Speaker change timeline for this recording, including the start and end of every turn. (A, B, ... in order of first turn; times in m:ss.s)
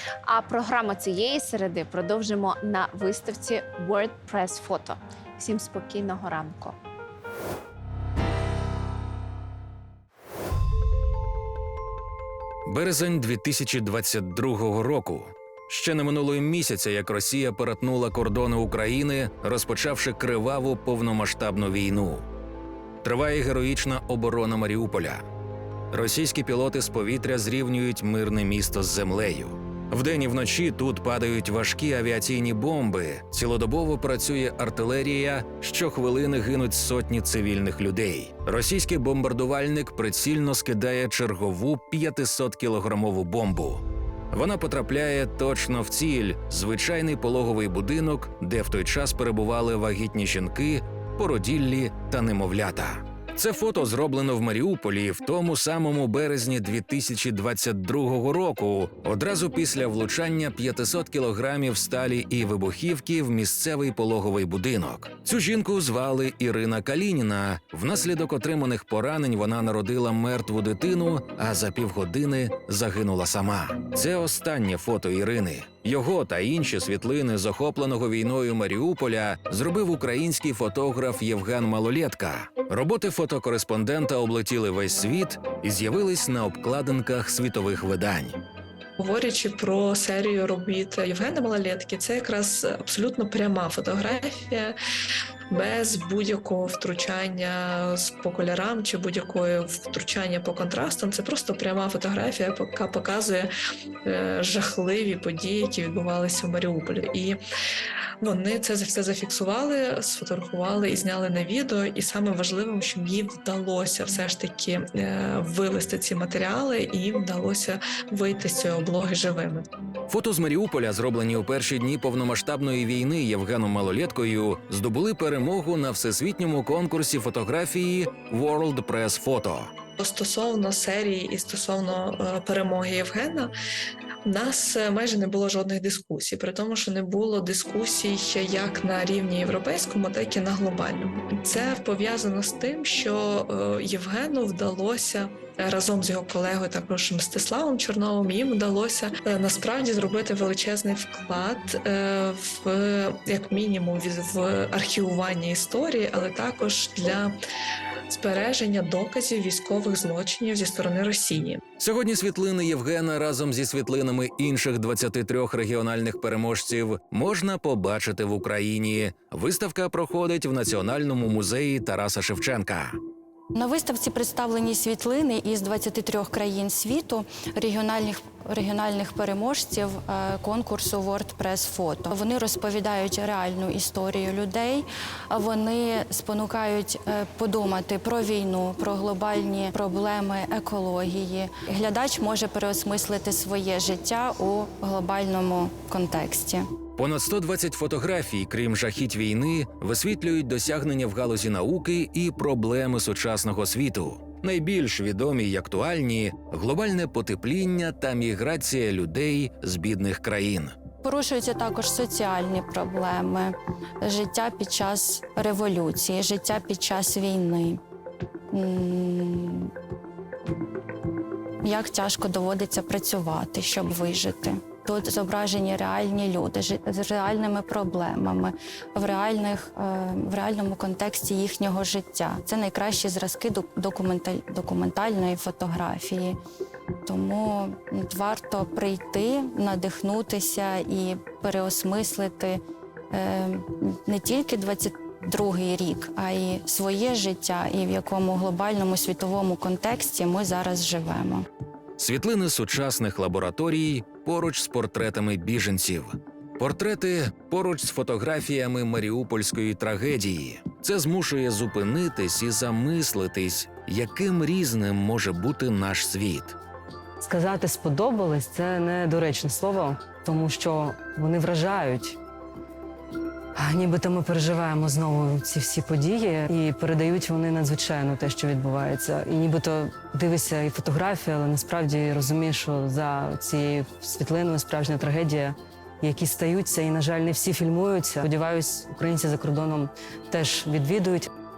0:00.3-0:06.8 A
0:12.7-0:22.3 B
0:23.0-0:25.3 B
0:25.9-1:28.4 B
1:29.0-1:34.8 C
1:35.5-1:43.5 C
1:44.0-1:47.4 C
1:48.2-1:59.6 C
2:00.1-2:09.7 B
2:10.0-2:13.5 C
2:14.2-2:37.4 C
2:38.1-2:41.6 C
2:41.8-2:53.0 B
2:53.5-3:16.7 D
3:17.0-3:30.7 B
3:31.0-3:37.8 D
3:38.5-3:39.7 D
3:41.6-3:56.4 D
3:57.0-4:02.6 D
4:03.1-4:11.5 D
4:12.0-4:26.6 B
4:27.2-4:32.2 E
4:33.6-4:51.3 E